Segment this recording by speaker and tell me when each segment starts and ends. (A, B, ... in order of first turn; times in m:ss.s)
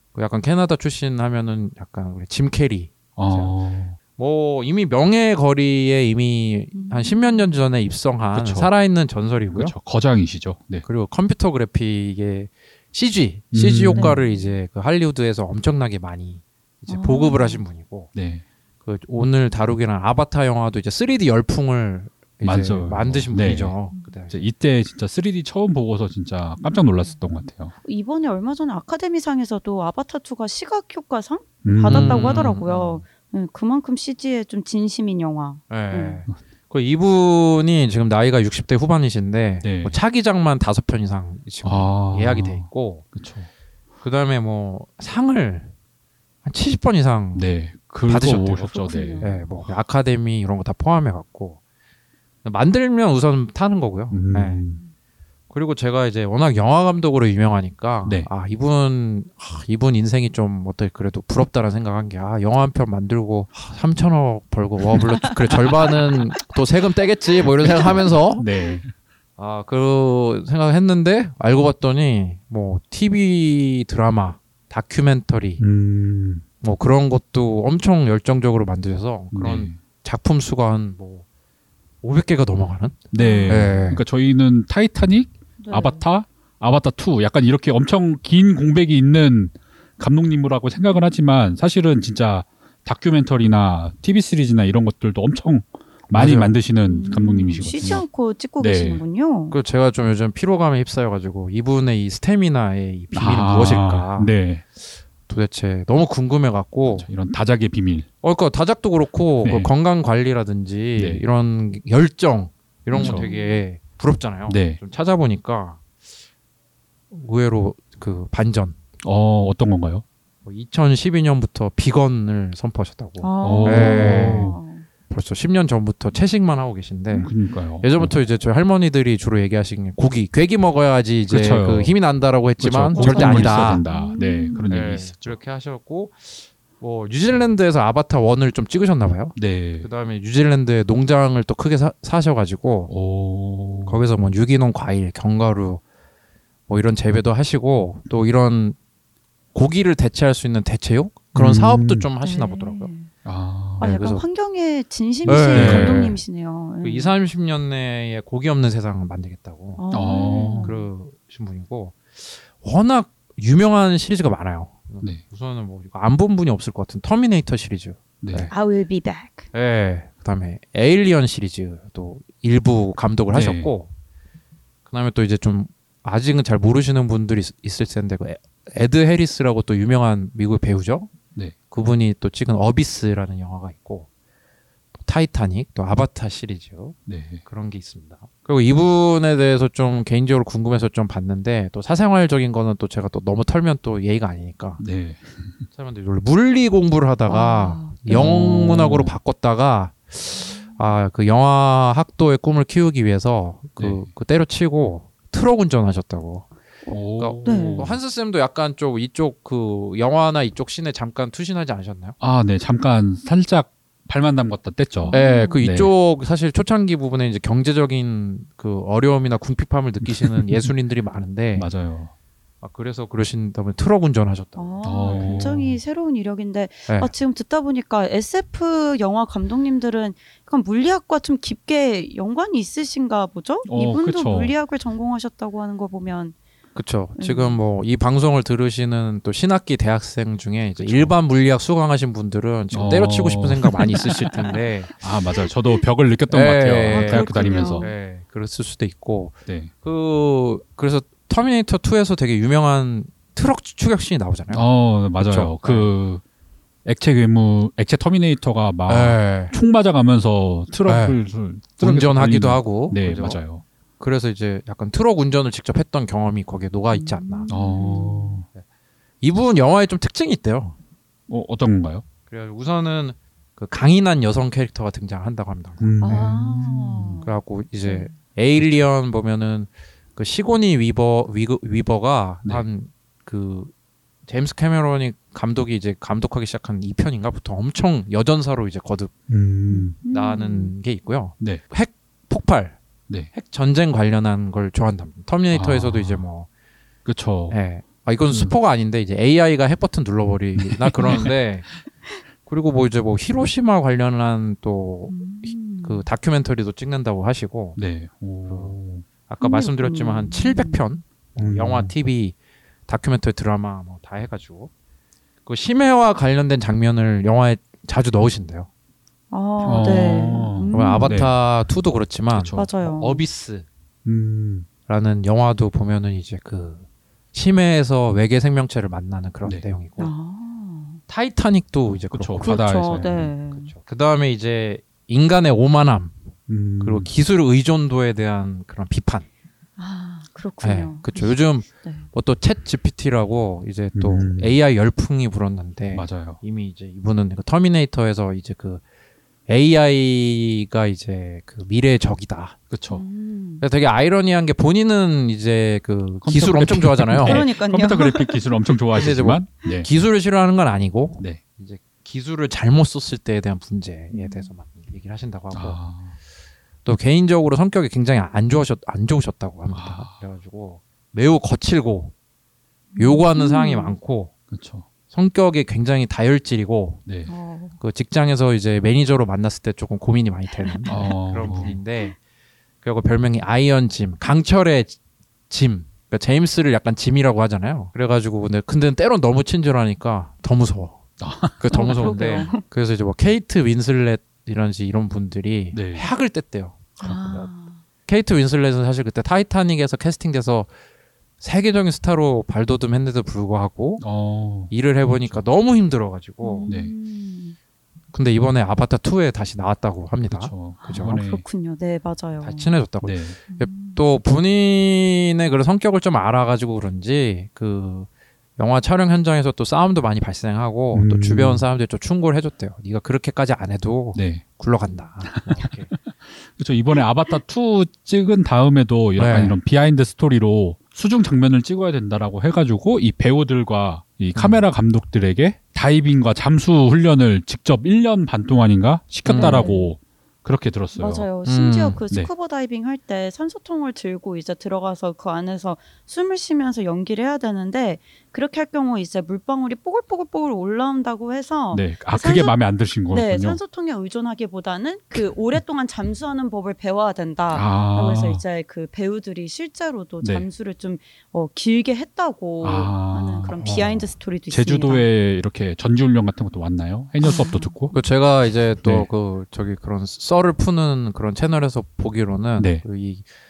0:00.1-0:03.6 A
0:03.2-0:04.0 B
0:04.2-0:09.8 A
0:06.7-0:07.6 C
0:08.3-0:08.7 B
0:09.5-0:10.9 B
0:10.9-0:18.1 A
0:13.5-0:14.2 B
0:14.0-0:14.5 C
0:16.9-0:17.6 C
0:18.2-0:18.4 B
0:18.8-0:24.4 A
0:22.4-0:23.8 B
0:24.3-0:27.7 B
0:27.8-0:36.2 C
0:31.6-0:32.6 B
0:31.9-0:33.0 A
0:35.7-0:43.1 A
0:39.6-0:40.0 B
0:41.6-0:43.5 B
0:44.0-0:45.7 A
0:46.4-0:47.5 A
0:47.4-0:49.3 B
0:48.0-0:51.6 A
0:48.4-0:49.5 C
0:52.4-0:54.6 A
0:54.1-0:54.8 B
0:55.5-1:08.5 A
1:07.6-1:08.9 B
1:09.4-1:15.6 A
1:15.6-1:16.4 B
1:16.6-1:21.2 A
1:19.3-1:19.8 B
1:22.0-1:24.0 A
1:23.1-1:38.1 B
1:23.2-1:24.0 C
1:25.6-1:26.0 C
1:36.1-1:36.6 A
1:36.9-1:39.6 C
1:37.1-1:38.0 A
1:38.6-1:39.0 B
1:39.5-1:47.1 A
1:43.1-1:44.6 B
1:46.9-1:48.1 B
1:48.2-1:56.1 A
1:49.4-1:49.7 B
1:51.0-1:51.2 B
1:52.9-1:53.3 B
1:52.9-1:53.6 C
1:54.5-1:54.8 B
1:57.1-1:58.8 A
1:59.0-2:00.0 B
2:00.4-2:04.6 A
2:03.2-2:04.9 C
2:03.4-2:04.6 B
2:05.1-2:13.8 A
2:07.1-2:08.1 B
2:11.3-2:11.9 B
2:12.6-2:15.4 B
2:12.9-2:14.7 C
2:14.7-2:22.9 A
2:19.4-2:19.9 B
2:22.9-2:24.0 B
2:23.8-2:25.8 A
2:26.7-2:28.8 A
2:29.5-2:32.9 A
2:31.4-2:32.1 B
2:32.2-2:33.1 C
2:33.2-2:33.9 B
2:33.8-2:34.3 A
2:33.8-2:37.1 C
2:35.2-2:36.2 B
2:35.3-2:36.2 A
2:36.8-2:48.5 A
2:39.8-2:40.8 C
2:39.9-2:40.7 B
2:48.2-2:48.5 B
2:48.5-2:49.5 C
2:49.5-2:53.9 A
2:53.3-2:53.7 B
2:54.9-3:01.1 A
3:01.7-3:04.1 A
3:05.0-3:14.8 A
3:07.1-3:07.4 B
3:14.8-3:15.7 B
3:15.8-3:26.5 A
3:17.3-3:18.3 C
3:18.1-3:19.1 B
3:20.4-3:20.8 C
3:23.8-3:24.1 B
3:26.9-3:27.9 C
3:26.9-3:28.0 B
3:27.2-3:32.2 A
3:32.2-3:35.9 B
3:35.0-3:35.6 C
3:35.1-3:41.7 A
3:40.0-3:40.7 B
3:41.6-3:42.1 B
3:42.6-3:45.5 A
3:44.6-3:56.4 C
3:44.8-3:45.8 B
3:53.6-3:54.6 B
3:56.8-4:05.0 A
3:57.2-3:57.6 C
4:00.8-4:01.1 B
4:02.7-4:04.3 B
4:04.1-4:04.4 C
4:05.0-4:07.9 B
4:06.3-4:15.9 A
4:06.9-4:07.9 C
4:14.5-4:16.2 B
4:16.8-4:23.6 B
4:18.9-4:19.5 A
4:20.9-4:21.2 A
4:21.8-4:23.4 A
4:24.0-4:27.5 A
4:26.9-4:28.4 C
4:27.5-4:28.5 B
4:29.2-4:30.8 A
4:31.3-4:32.0 B
4:32.3-4:36.4 A
4:35.8-4:37.2 B
4:36.0-4:37.3 C
4:37.2-4:43.7 A
4:37.8-4:38.1 C
4:44.3-4:49.2 A
4:49.3-4:50.0 B
4:49.7-4:50.7 C
4:50.0-4:52.8 A
4:53.3-4:56.5 A
4:55.5-4:56.2 B
4:57.0-4:57.6 B
4:57.5-5:01.7 A
4:58.3-4:58.6 B
5:00.6-5:01.4 B
5:02.4-5:07.8 A
5:05.1-5:06.0 C
5:07.8-5:09.1 B
5:08.5-5:08.8 A
5:09.3-5:12.4 A
5:09.4-5:10.8 C
5:11.4-5:11.9 B
5:12.9-5:14.7 A
5:15.5-5:18.7 A
5:19.3-5:21.3 C
5:19.6-5:21.4 B
5:20.7-5:23.7 A
5:22.3-5:22.7 B
5:22.5-5:23.2 C
5:24.0-5:24.7 B
5:24.9-5:30.1 A
5:30.0-5:31.0 C
5:31.1-5:39.3 A
5:31.9-5:33.3 B
5:32.4-5:33.7 C
5:36.5-5:37.1 B
5:39.8-5:42.1 C
5:40.6-5:48.8 A
5:44.0-5:44.6 B
5:45.9-5:46.4 B
5:49.5-5:52.6 A
5:52.7-5:53.0 B
5:52.9-5:53.6 C
5:53.6-5:57.4 A
5:56.2-5:59.9 B
5:57.2-5:58.4 C
5:58.9-6:05.8 A
6:04.1-6:04.5 C
6:05.5-6:06.2 B
6:06.8-6:12.1 A
6:09.7-6:10.1 B
6:12.9-6:14.0 C
6:13.0-6:14.3 A
6:14.5-6:14.9 B
6:15.1-6:17.0 A
6:17.1-6:17.3 B
6:17.3-6:17.8 C
6:17.8-6:22.2 A
6:20.6-6:22.1 C
6:20.9-6:21.8 B
6:22.8-6:25.0 A
6:25.5-6:37.5 A
6:31.2-6:32.5 B
6:31.7-6:32.6 C
6:35.7-6:36.1 B
6:37.0-6:37.8 C
6:38.1-6:40.7 A
6:41.4-6:44.1 A
6:44.0-6:45.4 B
6:44.7-6:46.7 A
6:46.4-6:47.6 C
6:46.7-6:46.9 B
6:48.1-6:51.2 A
6:50.3-6:51.4 B
6:50.8-6:52.8 C
6:52.4-7:05.9 A
6:53.0-6:53.4 B
6:53.5-6:54.0 C
7:00.9-7:01.6 B
7:04.2-7:04.5 B
7:05.3-7:21.3 B
7:09.2-7:09.6 A
7:14.4-7:14.6 A
7:19.2-7:19.8 A
7:19.4-7:19.9 C
7:21.0-7:32.6 C
7:21.4-7:22.0 A
7:31.7-7:33.6 B
7:33.1-7:45.1 C
7:37.5-7:38.4 B
7:40.2-7:40.5 B
7:42.6-7:43.6 B
7:43.6-7:44.1 A
7:44.5-7:48.0 B
7:47.2-7:47.8 C
7:47.9-7:53.3 A
7:48.8-7:49.1 B
7:52.6-7:52.8 B